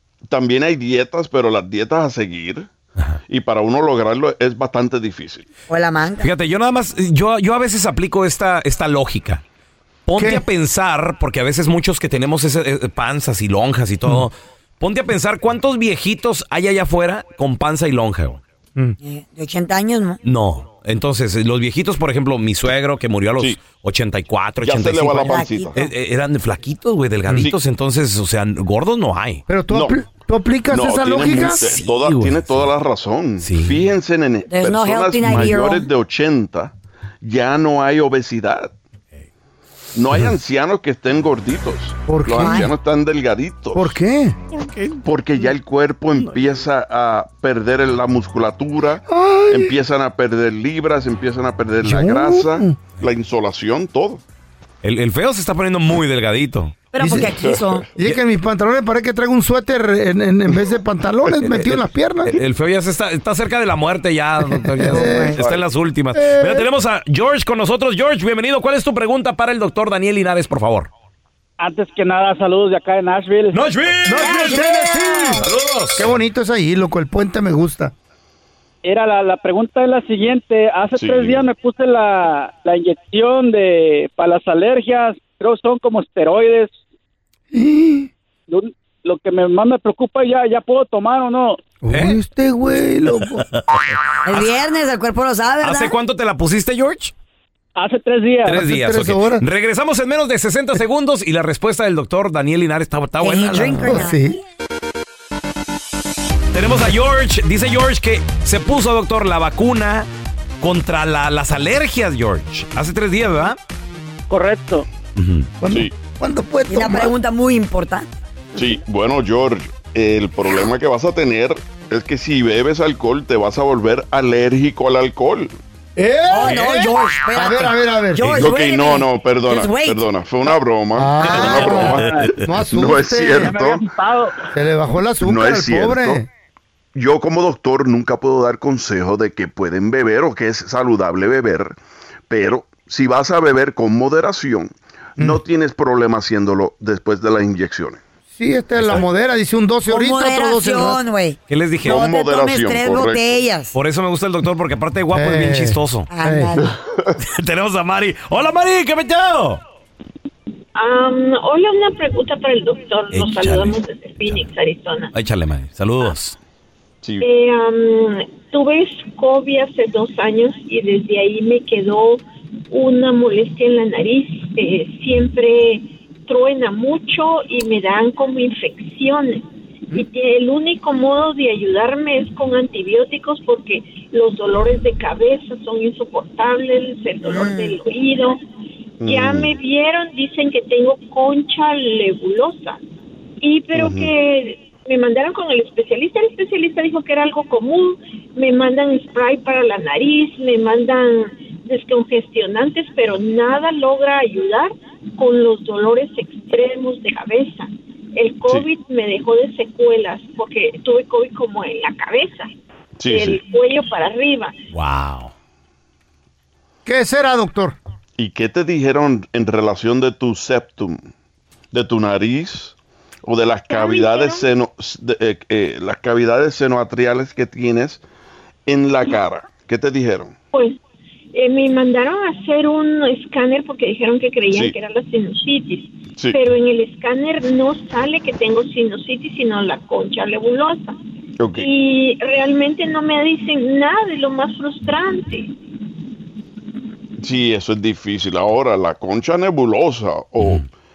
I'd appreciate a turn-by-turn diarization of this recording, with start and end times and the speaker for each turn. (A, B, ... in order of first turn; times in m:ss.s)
0:00.3-0:02.7 A
0:03.3-0:05.5 A
0:05.7-0:06.3 B
0:06.2-0:09.4 C
0:10.0-0:18.4 C
0:10.2-0:10.4 D
0:19.0-0:20.2 B
0:20.2-0:29.4 C
0:24.6-0:25.7 A
0:25.1-0:25.9 B
0:29.5-0:31.8 D
0:29.7-0:30.0 A
0:30.7-0:38.7 A
0:31.6-0:32.6 C
0:33.4-0:33.8 C
0:34.4-0:35.9 B
0:35.2-0:35.6 D
0:39.9-0:43.9 A
0:42.0-0:42.7 D
0:42.3-0:42.7 B
0:43.7-0:44.4 D
0:45.0-0:54.2 A
0:49.1-0:49.7 D
0:51.8-0:52.8 D
0:54.8-0:56.8 C
0:56.9-0:57.9 B
0:57.0-1:02.3 D
0:57.4-0:57.8 A
1:02.3-1:10.9 C
1:04.4-1:05.4 D
1:04.9-1:05.4 B
1:06.1-1:06.7 D
1:11.6-1:13.6 E
1:13.5-1:14.7 C
1:14.0-1:15.4 D
1:14.2-1:15.4 B
1:15.4-1:16.1 C
1:16.0-1:17.9 D
1:18.8-1:26.7 E
1:21.0-1:21.5 A
1:27.5-1:28.1 D
1:28.5-1:31.6 E
1:31.8-1:33.4 D
1:33.5-1:34.6 C
1:34.2-1:35.9 B
1:35.6-1:37.1 C
1:37.8-1:38.6 E
1:38.4-1:44.0 C
1:38.6-1:39.4 D
1:43.2-1:44.2 B
1:43.8-1:44.4 D
1:46.5-1:50.1 C
1:50.6-1:53.6 C
1:54.3-1:54.8 E
1:55.2-1:55.5 C
1:55.6-1:57.1 D
1:56.7-1:58.7 B
1:58.6-2:05.5 A
2:06.0-2:08.4 D
2:06.3-2:10.1 B
2:08.4-2:12.2 A
2:10.9-2:13.6 D
2:11.2-2:12.5 C
2:12.7-2:13.8 A
2:13.5-2:14.2 E
2:14.5-2:16.3 D
2:15.2-2:16.2 A
2:16.9-2:21.7 A
2:22.3-2:28.0 A
2:28.4-2:31.0 D
2:28.8-2:29.0 C
2:29.9-2:33.7 B
2:31.5-2:32.1 C
2:31.8-2:33.4 A
2:33.7-2:36.1 C
2:35.1-2:36.6 D
2:36.1-2:36.7 B
2:37.2-2:39.6 C
2:40.7-2:45.1 F
2:43.1-2:43.8 C
2:45.1-2:46.4 C
2:47.2-3:08.4 F
3:07.2-3:07.8 B
3:09.0-3:09.5 A
3:09.0-3:12.8 F
3:13.4-3:32.5 F
3:13.7-3:14.1 A
3:33.0-3:33.4 A
3:33.1-3:34.5 F
3:34.7-3:35.3 C
3:36.8-3:37.8 D
3:38.2-3:41.0 A
3:41.7-3:42.7 A
3:43.2-3:48.0 A
3:43.7-3:44.4 F
3:48.7-3:50.3 A
3:50.5-3:50.8 F
3:51.3-4:01.0 F
3:56.1-3:56.4 A
4:01.4-4:01.7 A
4:01.6-4:05.5 F
4:07.2-4:10.6 A